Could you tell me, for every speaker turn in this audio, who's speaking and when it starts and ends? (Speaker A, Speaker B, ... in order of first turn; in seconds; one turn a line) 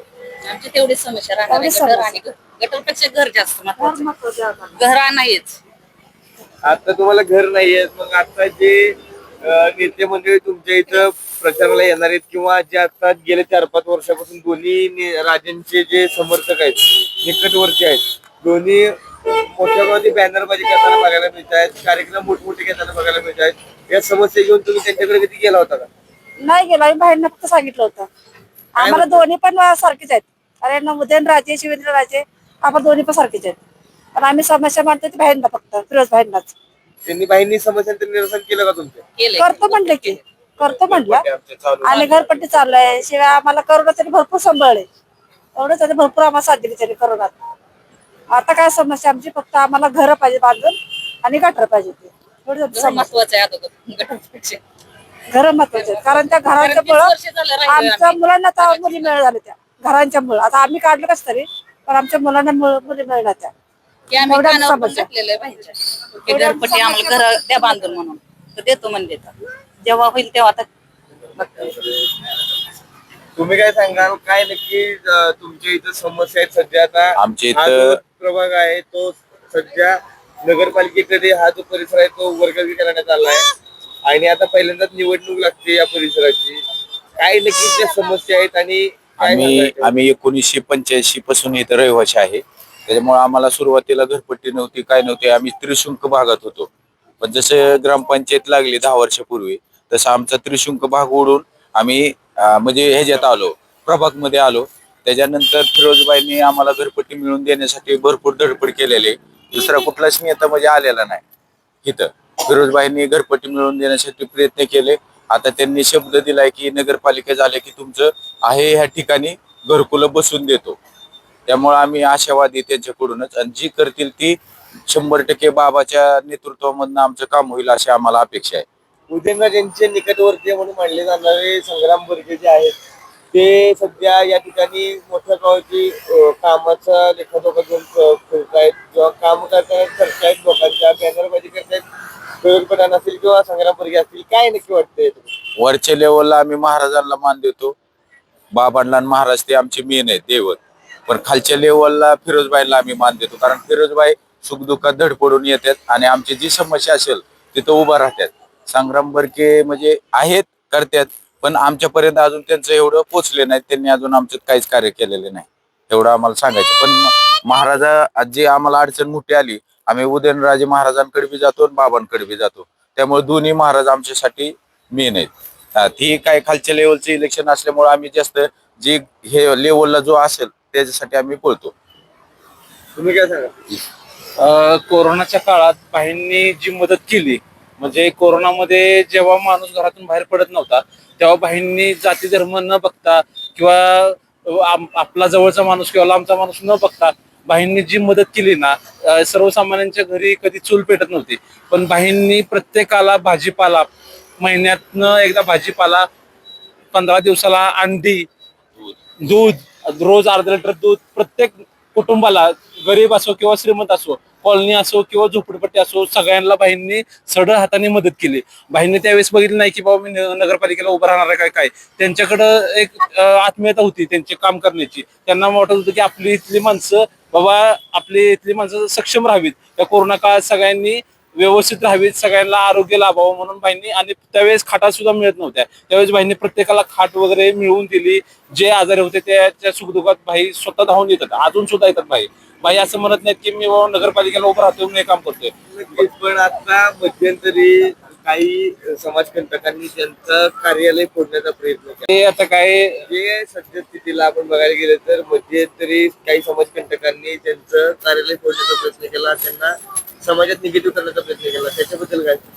Speaker A: 0.4-4.1
Speaker B: 1.5-2.2
Speaker B: 3.8-4.8
Speaker A: 4.8-5.6
Speaker C: 6.6-18.9
Speaker C: 19.5-25.9
Speaker B: 26.4-28.1
Speaker B: 28.8-33.6
Speaker C: 28.8-29.2
Speaker B: 34.1-36.5
Speaker C: 37.0-39.0
Speaker A: 39.2-40.2
Speaker B: 39.4-41.2
Speaker C: 40.9-42.2
Speaker B: 41.8-44.9
Speaker B: 45.5-47.3
Speaker B: 48.3-53.1
Speaker A: 52.7-54.6
Speaker B: 55.3-57.1
Speaker A: 55.7-59.2
Speaker B: 57.7-63.5
Speaker A: 64.1-70.7
Speaker B: 64.2-65.1
Speaker B: 66.3-67.9
Speaker A: 71.4-71.7
Speaker C: 73.3-83.5
Speaker D: 77.2-78.0
Speaker C: 84.0-86.6
Speaker C: 87.2-90.0
Speaker D: 89.2-96.7
Speaker D: 97.2-111.2
Speaker D: 111.8-120.8
Speaker D: 121.5-128.7
Speaker C: 129.1-132.8
Speaker C: 133.3-141.8
Speaker C: 142.4-145.3
Speaker D: 145.6-147.8
Speaker D: 148.5-181.7
Speaker C: 182.9-183.5
Speaker E: 184.4-206.1
Speaker E: 206.9-208.3
Speaker E: 209.2-246.0
Speaker C: 245.7-252.1
Speaker E: 252.1-253.0
Speaker C: 253.0-262.4